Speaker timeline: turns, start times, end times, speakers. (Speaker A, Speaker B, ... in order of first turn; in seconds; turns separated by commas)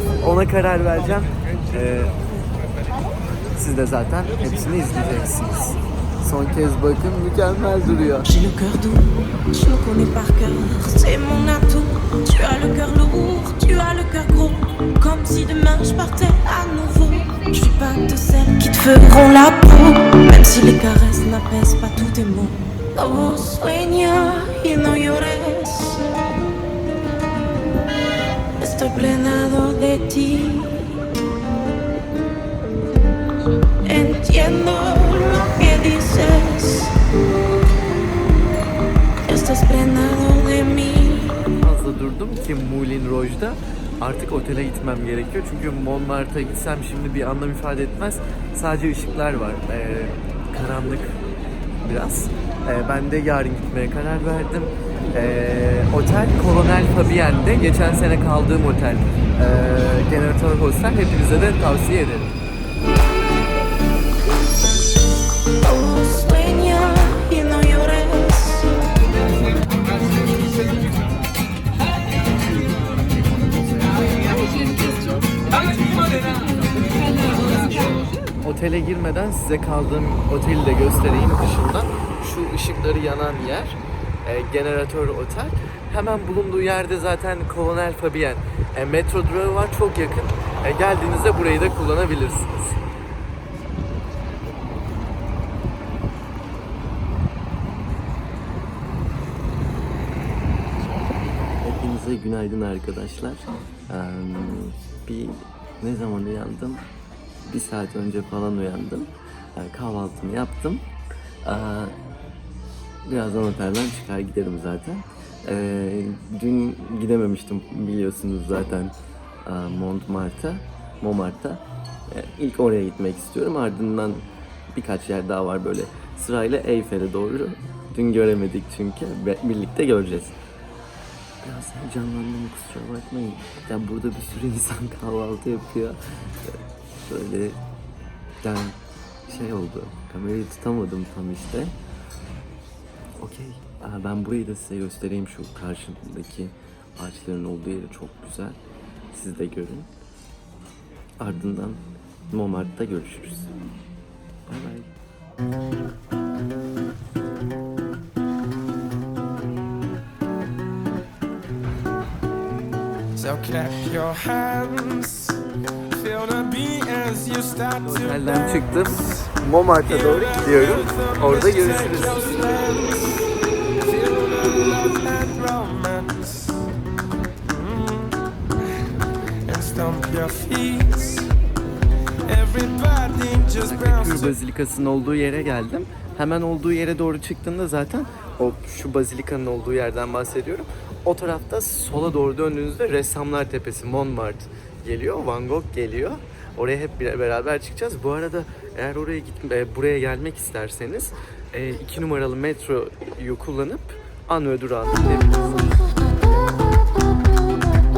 Speaker A: 0.2-2.1, Speaker A: 3.5-8.3, Speaker B: 8.2-26.1, Speaker B: 28.6-31.0, Speaker B: 33.9-36.9, Speaker B: 39.3-41.4, Speaker A: 41.5-51.2, Speaker A: 51.8-62.3, Speaker B: 65.6-69.0, Speaker A: 78.4-92.8, Speaker A: 101.6-106.8, Speaker A: 107.4-110.8, Speaker A: 111.5-112.0, Speaker A: 113.0-118.9, Speaker A: 119.5-130.4, Speaker A: 131.4-137.6, Speaker A: 138.4-141.8, Speaker A: 143.2-148.6, Speaker A: 149.1-149.9, Speaker A: 151.2-153.5, Speaker A: 154.5-154.9, Speaker C: 163.2-165.4, Speaker C: 165.9-169.2, Speaker A: 167.8-172.2, Speaker C: 169.9-176.6, Speaker C: 177.5-178.3, Speaker C: 179.5-181.3, Speaker C: 182.3-184.3, Speaker A: 183.6-205.8